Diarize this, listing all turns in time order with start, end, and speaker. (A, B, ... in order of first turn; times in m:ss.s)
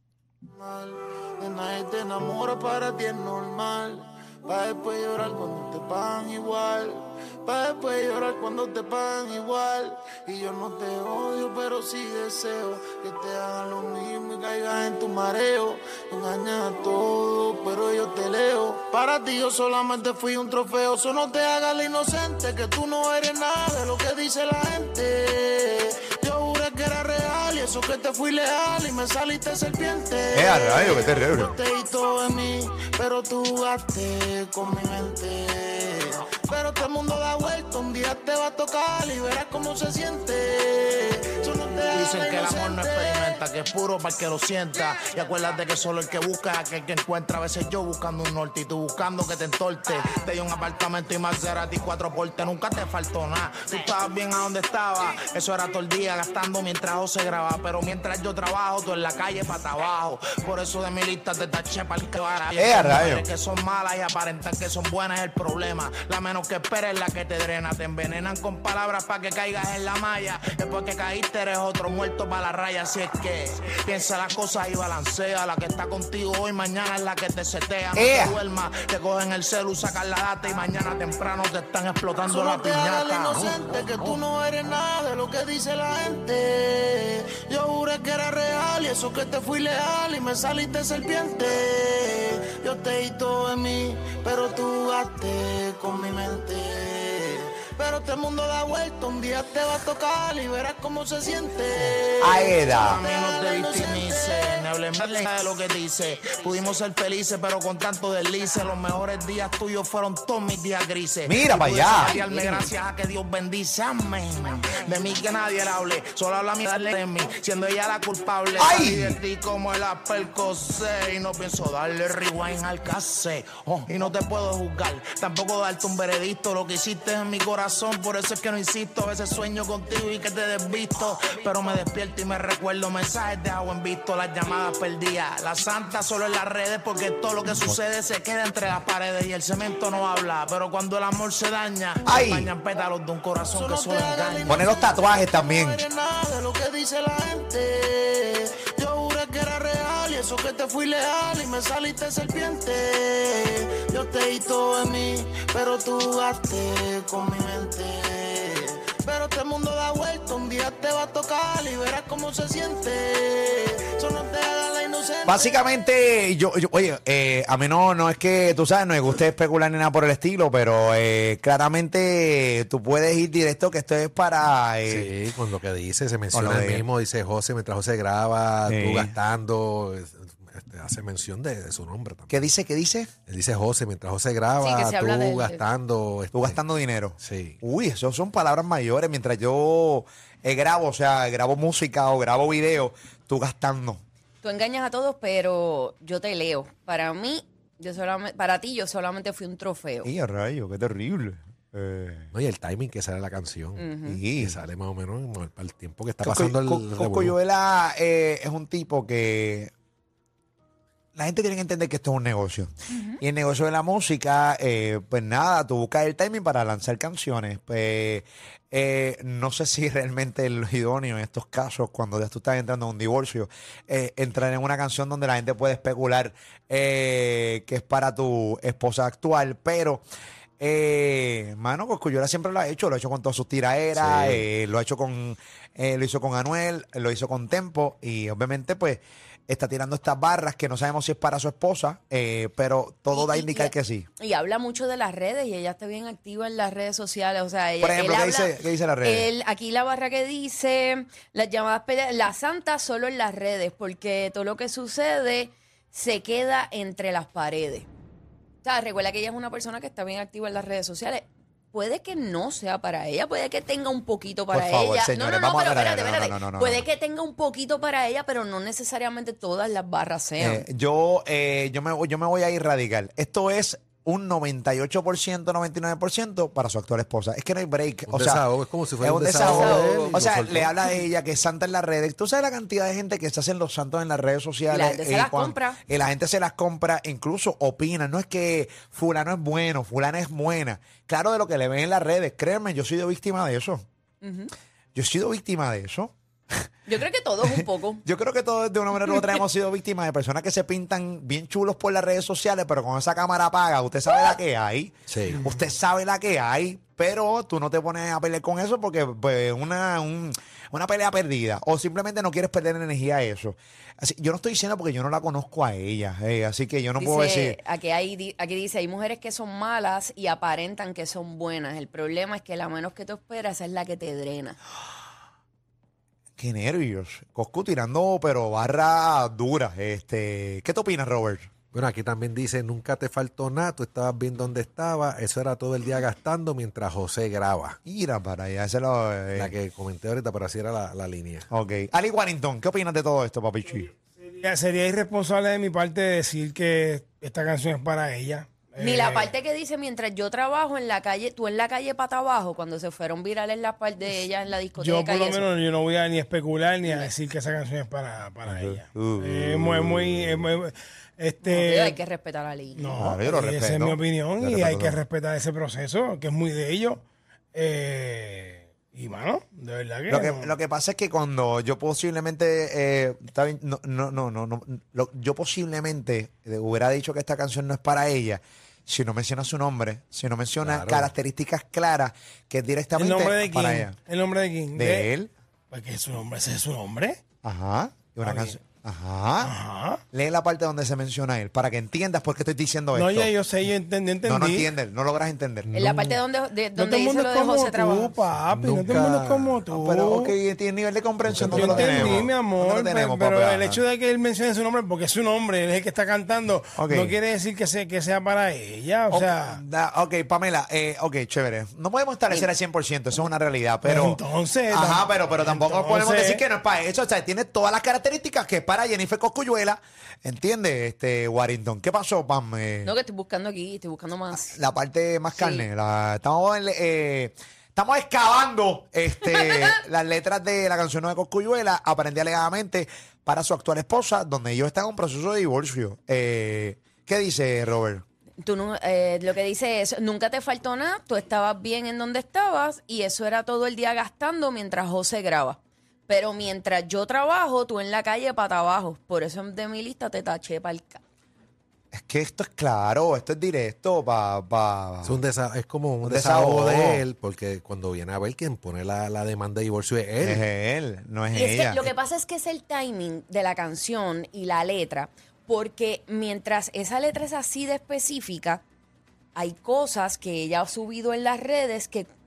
0:00.4-0:43.4 A
0:30.3-0:31.6 B
0:41.9-1:23.6 C
1:02.6-1:03.2 B
1:17.9-1:18.4 B
1:22.2-1:45.1 A
1:42.2-1:43.0 B
1:42.9-2:24.5 C
1:51.3-1:52.2 B
1:52.2-1:52.6 D
1:58.6-1:59.2 B
2:22.0-2:22.5 B
2:23.5-2:45.5 A
2:24.5-2:25.8 B
2:45.3-2:55.1 B
2:54.8-3:02.5 E
2:56.3-2:56.8 B
2:58.6-2:59.1 B
3:02.3-3:03.1 B
3:03.3-3:06.6 E
3:04.6-3:05.6 D
3:06.3-3:14.0 B
3:07.2-3:07.6 E
3:14.4-3:20.1 D
3:20.0-3:22.3 B
3:22.3-3:27.4 E
3:23.8-3:24.2 D
3:24.0-3:24.6 B
3:26.2-3:29.7 B
3:31.1-3:50.0 B
3:32.9-3:33.2 D
3:50.6-4:04.1 B
3:53.9-3:54.4 E
4:03.1-4:17.9 D
4:07.8-4:09.3 B
4:18.6-4:30.6 D
4:24.5-4:26.8 B
4:30.4-4:38.4 B
4:38.1-4:40.8 E
4:39.0-4:53.8 B
4:39.3-4:40.1 D
4:44.7-4:45.8 D
4:54.2-4:54.5 D
4:54.9-4:56.7 B
4:56.9-4:58.0 D
4:57.5-5:17.6 B
5:05.1-5:05.4 E
5:17.0-5:24.6 D
5:26.4-5:31.5 B
5:31.7-5:37.8 E
5:37.8-5:39.5 B
5:39.4-5:41.5 E
5:41.5-5:43.9 B
5:44.2-5:49.3 F
5:48.8-5:55.5 D
5:54.8-6:02.0 F
5:56.8-5:57.1 D
5:58.4-6:00.4 B
6:01.4-6:03.0 D
6:02.7-6:07.0 F
6:02.9-6:05.0 B
6:07.5-6:10.5 F
6:10.1-6:24.0 B
6:20.6-6:21.1 E
6:22.9-6:25.1 F
6:24.7-6:25.3 B
6:25.7-6:27.2 F
6:27.4-6:29.5 B
6:28.2-6:28.6 F
6:29.4-6:30.0 F
6:30.1-6:33.3 B
6:32.9-6:34.7 F
6:34.2-6:35.7 B
6:35.7-6:38.2 D
6:35.8-6:36.2 E
6:36.7-6:40.3 F
6:38.4-6:39.6 E
6:39.7-6:43.8 B
6:41.2-6:42.3 E
6:41.4-6:49.6 F
6:46.8-6:47.2 B
6:49.1-7:02.9 B
6:53.8-6:56.4 F
7:02.8-7:04.6 D
7:04.5-7:18.0 B
7:05.3-7:05.6 D
7:18.4-7:31.0 D
7:31.9-7:35.2 B
7:35.0-7:40.4 E
7:36.0-7:37.0 B
7:40.2-7:41.8 B
7:41.3-7:48.6 D
7:49.3-7:52.1 D